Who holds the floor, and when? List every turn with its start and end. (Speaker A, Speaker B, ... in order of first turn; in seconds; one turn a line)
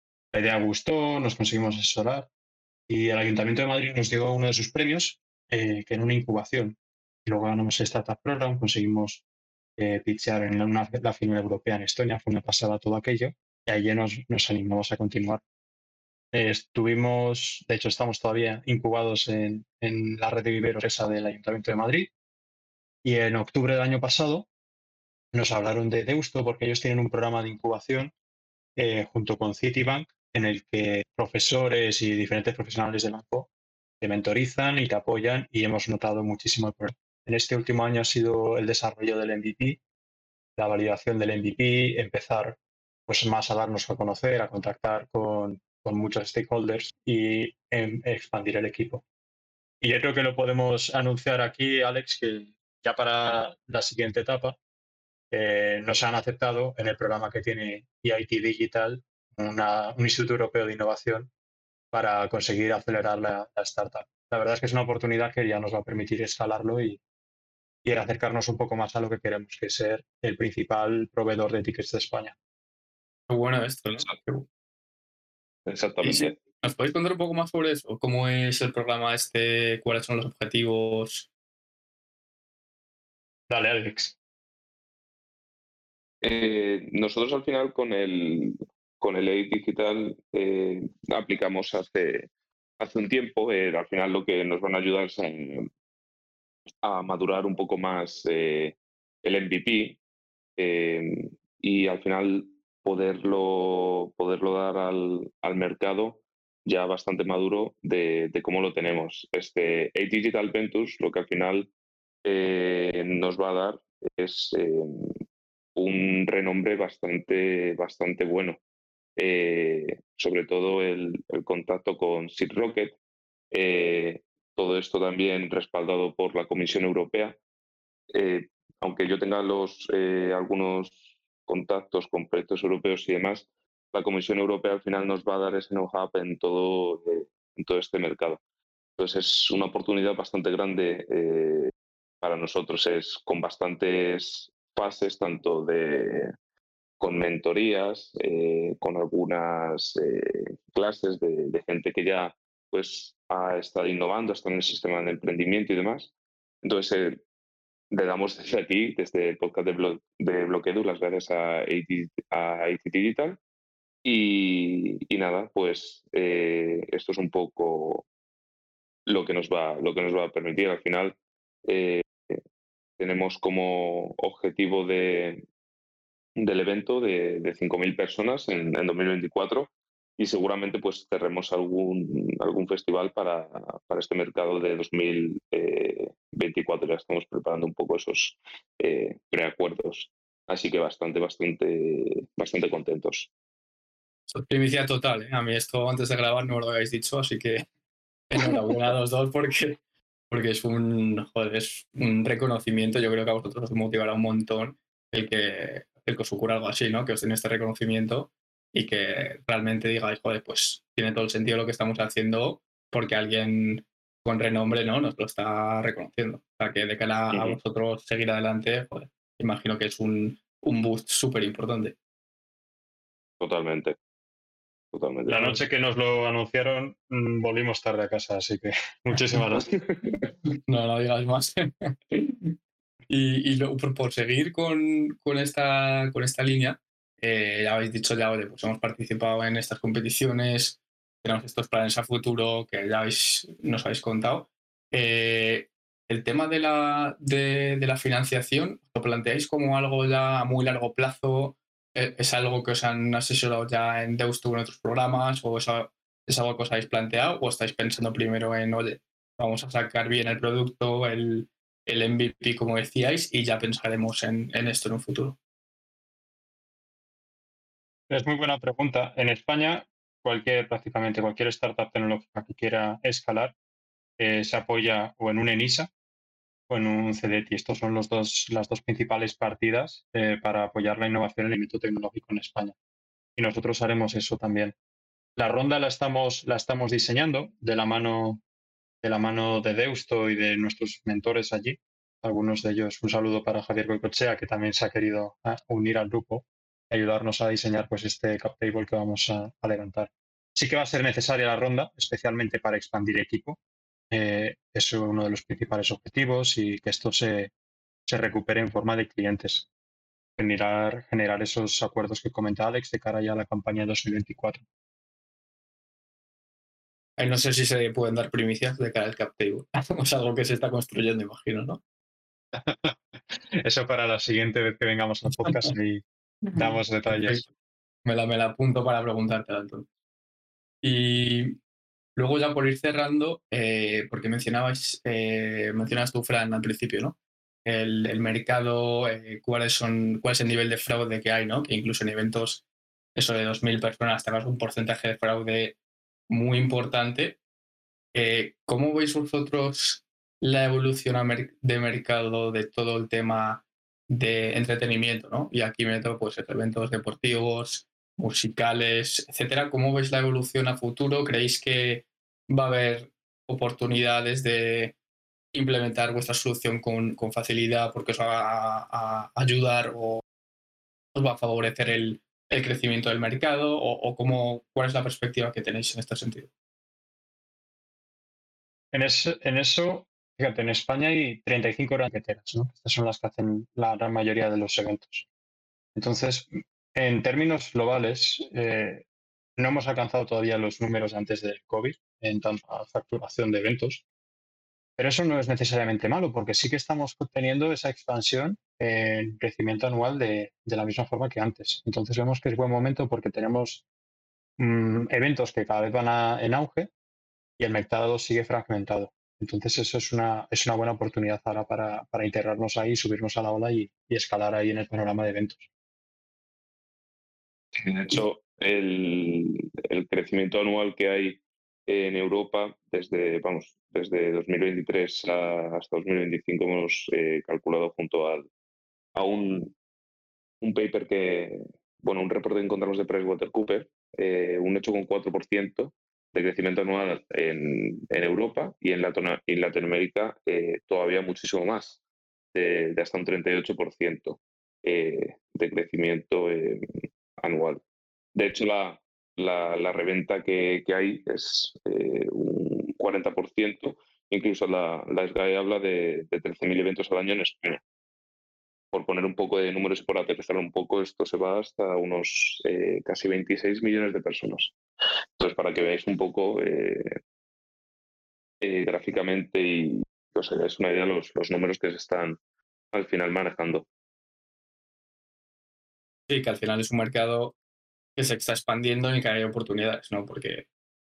Speaker A: 0.3-2.3
Speaker A: 2.9-9.2
Speaker A: 9.8-15.4
Speaker A: 16.3-22.1
Speaker A: 23.0-24.5
Speaker A: 25.3-28.1
Speaker A: 28.8-33.5
Speaker A: 34.0-39.8
Speaker A: 40.5-49.0
Speaker A: 49.8-54.6
Speaker A: 55.3-61.3
Speaker A: 61.9-67.0
Speaker A: 67.8-72.3
Speaker B: 73.3-74.5
Speaker C: 75.7-76.3
Speaker B: 76.0-81.3
Speaker A: 83.5-84.2
Speaker C: 86.2-95.7
Speaker C: 96.8-100.0
Speaker C: 100.6-111.7
Speaker C: 112.2-115.1
Speaker C: 115.7-118.6
Speaker C: 119.2-123.0
Speaker C: 123.5-127.4
Speaker C: 128.1-138.4
Speaker C: 139.0-146.3
Speaker C: 147.0-156.1
Speaker C: 156.6-157.2
Speaker C: 157.9-163.4
Speaker C: 164.0-168.1
Speaker C: 169.1-172.4
Speaker C: 173.0-175.4
Speaker C: 176.4-193.3
Speaker B: 194.3-197.7
Speaker B: 198.3-222.0
Speaker C: 217.3-217.6
Speaker C: 223.4-224.0
Speaker C: 224.9-225.6
Speaker A: 225.3-229.7
Speaker C: 229.6-230.2
Speaker B: 230.7-232.5
Speaker B: 233.1-265.4
Speaker A: 268.1-273.5
Speaker A: 274.2-275.9
Speaker A: 276.7-282.7
Speaker A: 283.4-284.7
Speaker A: 285.4-288.4
Speaker A: 289.0-303.6
Speaker A: 304.1-307.5
Speaker A: 308.1-309.7
Speaker A: 310.4-314.6
Speaker B: 317.2-321.8
Speaker A: 322.5-327.4
Speaker B: 325.4-325.7
Speaker B: 326.5-327.5
Speaker B: 328.0-329.9
Speaker B: 330.8-331.6
Speaker B: 332.1-342.6
Speaker B: 343.1-345.8
Speaker B: 346.3-347.4
Speaker B: 348.1-364.9
Speaker B: 365.5-370.2
Speaker B: 371.1-376.5
Speaker A: 378.9-385.3
Speaker A: 385.9-389.0
Speaker A: 389.6-394.0
Speaker A: 395.0-403.8
Speaker A: 404.6-406.9
Speaker A: 407.6-415.7
Speaker C: 417.7-428.5
Speaker C: 429.1-429.7
Speaker C: 430.6-442.0
Speaker C: 442.5-447.8
Speaker C: 448.3-457.8
Speaker C: 458.9-464.7
Speaker C: 465.4-467.1
Speaker C: 468.6-472.4
Speaker C: 472.9-473.9
Speaker B: 476.3-477.6
Speaker B: 478.1-480.7